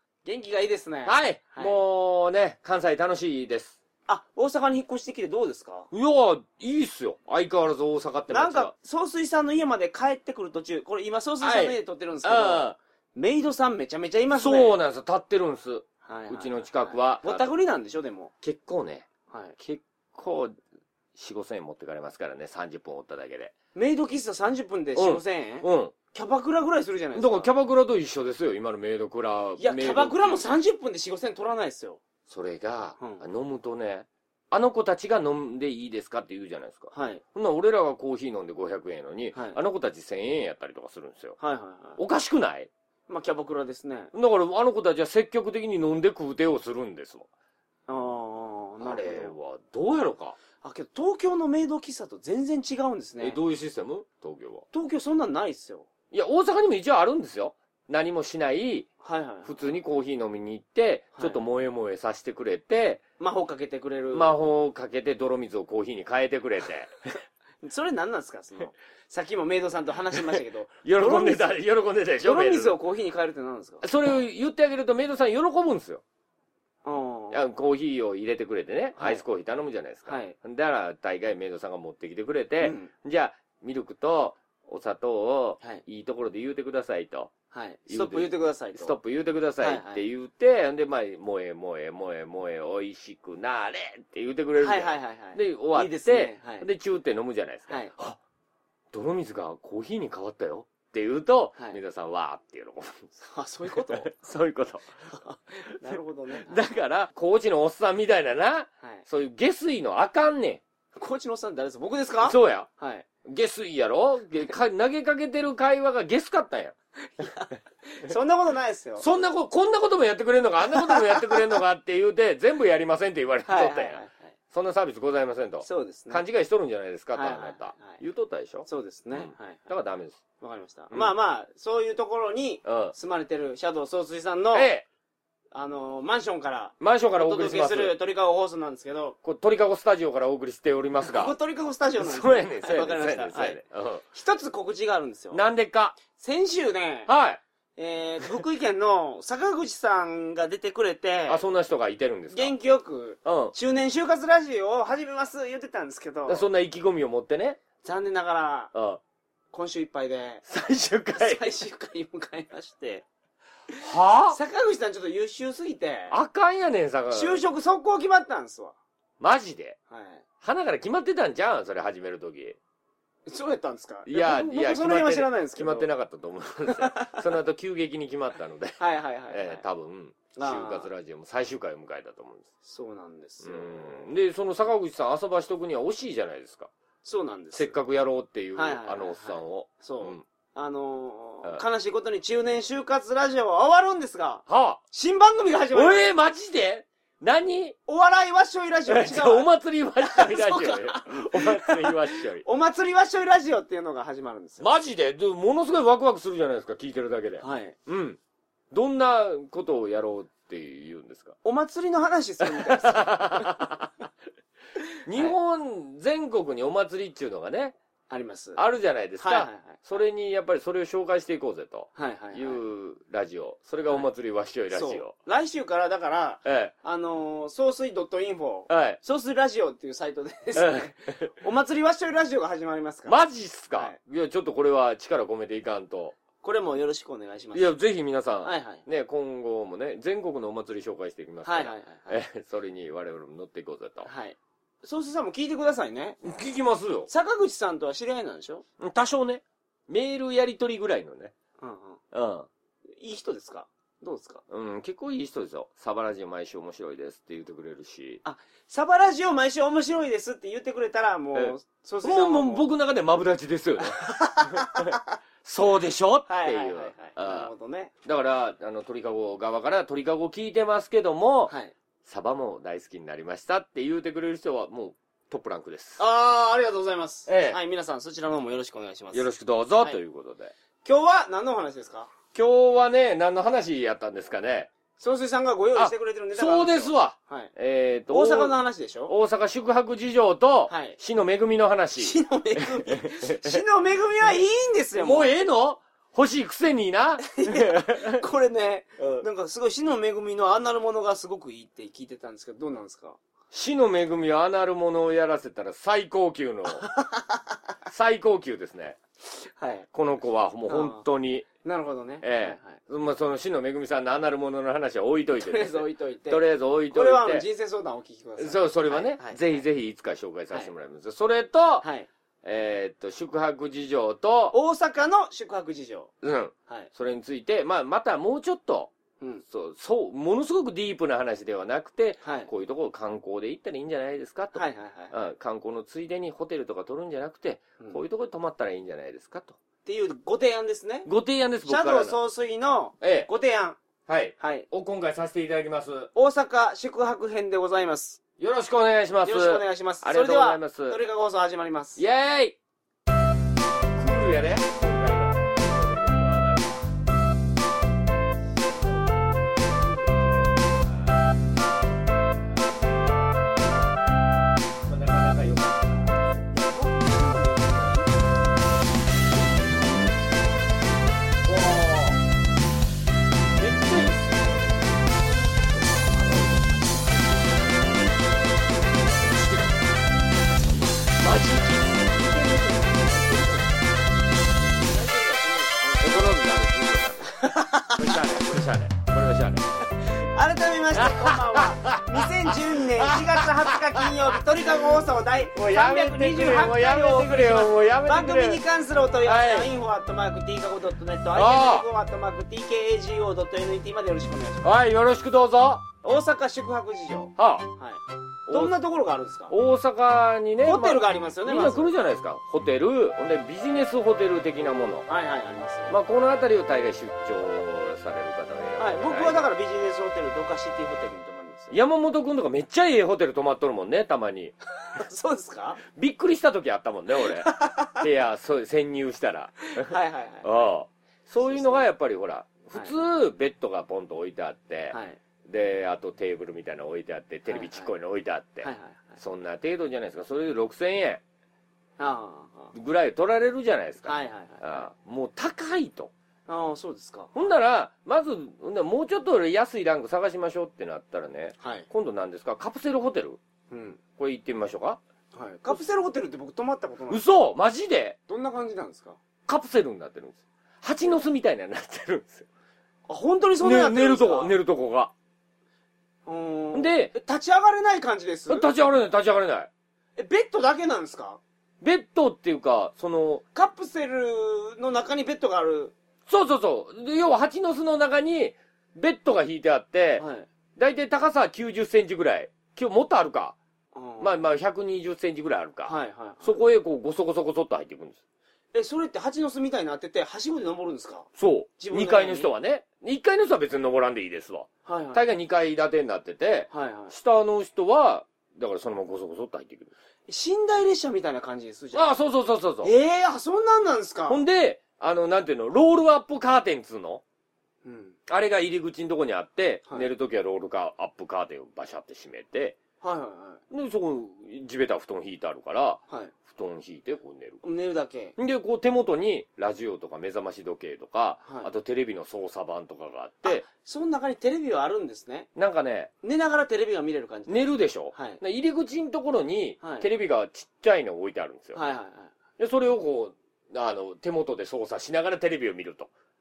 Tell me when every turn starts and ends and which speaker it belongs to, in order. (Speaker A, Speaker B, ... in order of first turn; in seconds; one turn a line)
Speaker A: 0.2-1.8
Speaker B: 1.1-3.8
Speaker A: 4.1-5.9
Speaker B: 5.9-8.7
Speaker A: 8.3-14.8
Speaker B: 11.4-12.8
Speaker B: 14.3-17.5
Speaker A: 16.1-18.3
Speaker B: 18.4-19.1
Speaker A: 19.3-19.6
Speaker B: 19.6-20.6
Speaker B: 21.1-23.6
Speaker A: 23.8-27.5
Speaker B: 25.0-25.9
Speaker B: 27.1-30.4
Speaker A: 29.6-32.0
Speaker B: 32.3-41.4
Speaker A: 33.0-33.2
Speaker A: 36.9-37.2
Speaker A: 39.3-39.6
Speaker A: 41.4-42.0
Speaker B: 42.0-42.7
Speaker A: 43.1-44.1
Speaker B: 44.1-47.3
Speaker A: 47.9-49.3
Speaker B: 48.8-50.4
Speaker A: 50.6-53.4
Speaker B: 53.2-54.6
Speaker A: 54.7-55.9
Speaker B: 56.1-58.9
Speaker A: 59.0-59.8
Speaker B: 59.5-63.0
Speaker A: 63.2-64.3
Speaker B: 64.1-66.9
Speaker A: 67.6-71.5
Speaker B: 70.2-72.8
Speaker A: 72.2-73.9
Speaker B: 73.8-76.0
Speaker A: 76.8-77.4
Speaker B: 77.3-87.3
Speaker A: 79.0-79.2
Speaker A: 80.1-80.3
Speaker A: 82.6-82.9
Speaker A: 87.5-89.0
Speaker B: 87.9-98.2
Speaker A: 89.6-90.0
Speaker A: 94.6-96.7
Speaker A: 97.7-98.0
Speaker B: 98.9-103.2
Speaker A: 103.3-104.1
Speaker B: 103.9-104.9
Speaker A: 105.2-106.7
Speaker B: 105.9-110.6
Speaker A: 111.0-113.1
Speaker B: 112.2-112.7
Speaker B: 113.2-116.8
Speaker A: 117.2-119.1
Speaker B: 119.0-124.0
Speaker A: 120.8-121.4
Speaker A: 123.5-124.3
Speaker B: 124.5-130.2
Speaker A: 125.6-126.2
Speaker A: 127.1-128.0
Speaker A: 128.7-129.7
Speaker A: 130.4-134.7
Speaker B: 132.7-132.9
Speaker B: 134.5-134.8
Speaker A: 135.5-139.2
Speaker B: 136.8-137.9
Speaker B: 139.2-141.3
Speaker A: 141.0-143.6
Speaker B: 142.0-144.0
Speaker A: 144.1-145.4
Speaker B: 145.3-146.0
Speaker A: 146.1-147.1
Speaker B: 147.1-147.4
Speaker A: 147.8-151.4
Speaker B: 151.3-152.6
Speaker A: 152.3-156.5
Speaker B: 153.2-153.5
Speaker B: 156.3-157.6
Speaker A: 157.8-158.7
Speaker B: 158.7-159.0
Speaker A: 159.5-160.5
Speaker B: 160.5-161.5
Speaker A: 161.2-163.1
Speaker A: 163.7-166.2
Speaker B: 163.8-164.4
Speaker B: 166.1-167.4
Speaker A: 167.1-168.8
Speaker B: 169.2-169.8
Speaker A: 169.9-170.2
Speaker B: 170.4-172.6
Speaker A: 173.3-175.9
Speaker B: 174.1-182.5
Speaker A: 176.7-177.2
Speaker A: 178.8-179.6
Speaker A: 180.3-180.9
Speaker A: 182.6-184.1
Speaker B: 183.4-186.7
Speaker A: 187.0-187.7
Speaker B: 187.5-190.2
Speaker A: 188.6-196.1
Speaker B: 194.5-194.8
Speaker B: 195.7-197.8
Speaker A: 197.9-199.5
Speaker B: 198.9-202.4
Speaker A: 200.0-204.7
Speaker B: 204.6-208.2
Speaker A: 207.4-207.8
Speaker B: 208.7-211.4
Speaker A: 211.4-213.7
Speaker B: 212.4-213.9
Speaker B: 215.1-217.8
Speaker A: 215.1-215.4
Speaker A: 218.1-218.6
Speaker B: 218.6-225.2
Speaker A: 219.2-220.0
Speaker A: 222.0-222.6
Speaker A: 224.7-233.2
Speaker B: 226.4-226.7
Speaker B: 228.7-229.0
Speaker B: 230.6-231.3
Speaker B: 233.1-236.2
Speaker A: 236.4-237.7
Speaker B: 237.5-244.1
Speaker A: 238.4-238.9
Speaker A: 241.4-242.2
Speaker A: 244.1-246.2
Speaker B: 246.2-247.1
Speaker A: 247.1-248.7
Speaker B: 248.8-251.3
Speaker A: 251.6-252.0
Speaker B: 252.1-252.5
Speaker A: 253.0-254.4
Speaker B: 254.5-258.2
Speaker A: 258.2-262.6
Speaker B: 261.3-267.5
Speaker A: 263.8-265.1
Speaker A: 266.3-267.9
Speaker B: 268.0-271.5
Speaker A: 271.5-271.7
Speaker B: 272.1-276.0
Speaker A: 276.0-279.2
Speaker B: 277.3-277.6
Speaker B: 279.1-280.5
Speaker A: 280.8-282.1
Speaker B: 282.3-284.7
Speaker A: 285.0-287.5
Speaker B: 285.8-293.6
Speaker A: 288.1-289.1
Speaker A: 290.7-291.0
Speaker A: 292.0-295.3
Speaker B: 295.0-298.2
Speaker A: 297.2-303.2
Speaker B: 299.0-299.3
Speaker B: 303.5-306.9
Speaker A: 306.8-307.4
Speaker B: 307.9-309.0
Speaker A: 309.4-309.9
Speaker B: 309.9-311.5
Speaker A: 310.7-311.1
Speaker A: 311.6-312.8
Speaker B: 312.2-317.5
Speaker A: 315.4-319.6
Speaker B: 318.4-321.9
Speaker A: 321.8-322.1
Speaker B: 322.4-324.6
Speaker A: 324.5-326.1
Speaker B: 326.2-328.9
Speaker B: 329.5-339.6
Speaker A: 332.2-332.5
Speaker A: 334.6-335.1
Speaker A: 339.9-341.1
Speaker B: 341.1-342.2
Speaker A: 341.6-343.8
Speaker B: 343.0-343.3
Speaker B: 344.1-346.1
Speaker A: 344.4-344.7
Speaker A: 346.1-348.2
Speaker B: 348.4-351.0
Speaker A: 349.2-352.0
Speaker B: 352.0-352.6
Speaker B: 354.0-356.8
Speaker B: 358.5-363.7
Speaker B: 364.8-366.4
Speaker A: 366.5-368.3
Speaker B: 371.4-372.2
Speaker B: 373.6-375.1
Speaker A: 375.2-378.1
Speaker B: 379.3-379.7
Speaker B: 381.2-383.8
Speaker A: 384.7-386.4
Speaker B: 386.0-389.7
Speaker A: 387.4-388.4
Speaker A: 390.0-404.7
Speaker B: 390.9-394.4
Speaker B: 395.5-398.6
Speaker B: 399.2-399.7
Speaker B: 401.3-401.9
Speaker B: 404.6-405.9
Speaker A: 406.0-409.5
Speaker B: 407.4-407.7
Speaker B: 408.5-408.7
Speaker B: 409.5-415.1
Speaker A: 410.6-411.9
Speaker A: 415.1-415.9
Speaker B: 415.9-419.4
Speaker A: 418.8-421.8
Speaker B: 421.7-424.6
Speaker A: 424.9-425.8
Speaker B: 425.9-435.0
Speaker A: 427.2-428.0
Speaker A: 429.7-430.7
Speaker A: 431.4-431.9
Speaker A: 432.7-433.0
Speaker A: 434.9-435.2
Speaker B: 435.5-441.2
Speaker A: 437.5-437.9
Speaker A: 438.6-439.2
Speaker A: 442.0-442.7
Speaker B: 442.7-446.1
Speaker A: 444.0-444.9
Speaker A: 446.5-447.5
Speaker B: 447.4-453.4
Speaker A: 451.6-451.9
Speaker A: 453.7-454.0
Speaker B: 454.2-455.0
Speaker A: 455.3-457.2
Speaker B: 457.1-458.2
Speaker A: 458.3-459.2
Speaker B: 459.5-462.5
Speaker A: 463.1-464.5
Speaker B: 463.6-465.1
Speaker A: 466.3-468.7
Speaker B: 466.7-467.1
Speaker B: 468.5-469.7
Speaker A: 470.2-471.4
Speaker B: 471.8-473.4
Speaker A: 473.5-475.9
Speaker B: 476.3-480.2
Speaker A: 480.2-480.5
Speaker B: 480.8-483.6
Speaker A: 483.9-484.4
Speaker B: 484.2-488.2
Speaker A: 485.8-486.6
Speaker A: 488.7-492.5
Speaker B: 491.4-499.9
Speaker A: 494.9-495.2
Speaker A: 496.7-497.1
Speaker A: 500.3-502.2
Speaker B: 501.9-502.9
Speaker A: 502.8-504.4
Speaker B: 504.3-507.2
Speaker A: 507.8-508.2
Speaker B: 508.3-512.8
Speaker A: 513.0-513.6
Speaker B: 513.7-517.6
Speaker A: 516.1-516.3
Speaker A: 517.6-518.4
Speaker B: 518.4-523.6
Speaker A: 521.5-521.7
Speaker A: 523.5-525.5
Speaker B: 525.6-526.1
Speaker A: 526.2-528.4
Speaker B: 527.5-531.8
Speaker A: 529.8-530.1
Speaker A: 531.7-532.3
Speaker B: 532.6-536.1